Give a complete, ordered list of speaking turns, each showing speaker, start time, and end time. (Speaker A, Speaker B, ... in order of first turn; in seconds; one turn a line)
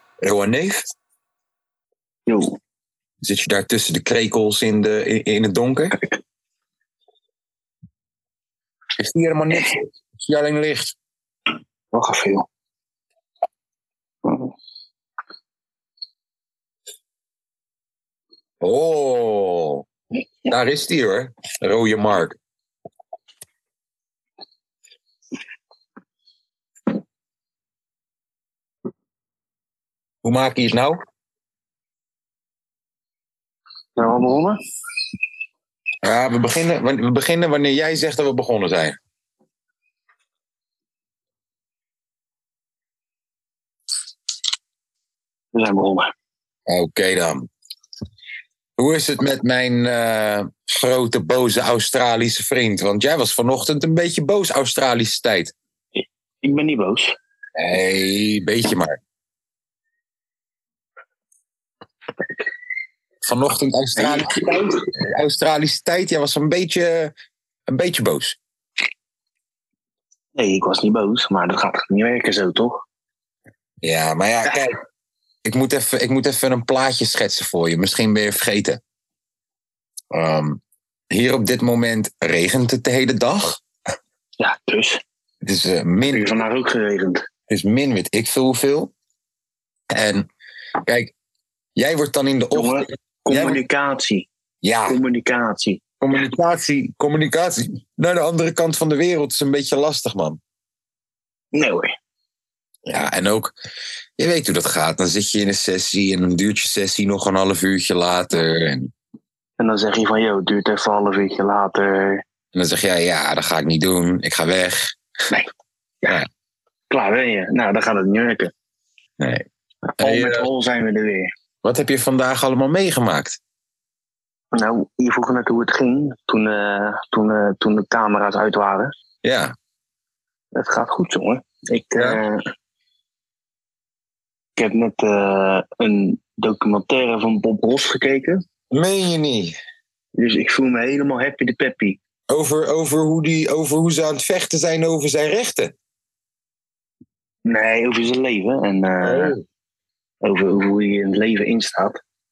Speaker A: 0.2-0.9
Speaker B: 2.3-2.6
Speaker A: 3.2-6.0
Speaker A: 9.0-10.9
Speaker B: 11.9-12.4
Speaker B: 14.2-14.5
Speaker A: 18.6-19.8
Speaker A: 20.5-22.4
Speaker A: 30.2-31.0
Speaker B: 34.0-34.6
Speaker A: 36.0-39.0
Speaker B: 45.5-46.1
Speaker A: 46.7-47.5
Speaker A: 48.8-55.5
Speaker B: 56.0-57.1
Speaker A: 57.5-59.0
Speaker A: 63.2-67.1
Speaker B: 64.0-64.6
Speaker A: 67.7-68.4
Speaker B: 70.3-72.8
Speaker A: 73.8-74.8
Speaker A: 75.4-78.8
Speaker A: 80.1-83.6
Speaker B: 84.4-85.0
Speaker A: 85.4-86.4
Speaker B: 86.1-87.2
Speaker A: 87.5-88.9
Speaker A: 89.9-90.3
Speaker A: 90.8-91.1
Speaker A: 91.8-93.6
Speaker B: 92.5-94.3
Speaker A: 94.6-95.0
Speaker B: 94.9-95.8
Speaker A: 96.0-100.4
Speaker B: 101.5-101.9
Speaker A: 102.9-103.5
Speaker A: 104.2-108.9
Speaker B: 109.6-112.2
Speaker A: 112.5-114.9
Speaker B: 116.9-118.5
Speaker A: 119.2-119.4
Speaker B: 119.8-121.3
Speaker A: 120.0-120.5
Speaker A: 121.6-123.4
Speaker B: 124.5-128.9
Speaker A: 129.2-129.5
Speaker B: 130.5-132.4
Speaker A: 131.9-132.2
Speaker B: 134.6-138.4
Speaker A: 138.7-139.6
Speaker B: 140.2-142.0
Speaker A: 142.3-145.7
Speaker B: 147.4-149.3
Speaker A: 149.0-149.4
Speaker B: 150.2-152.0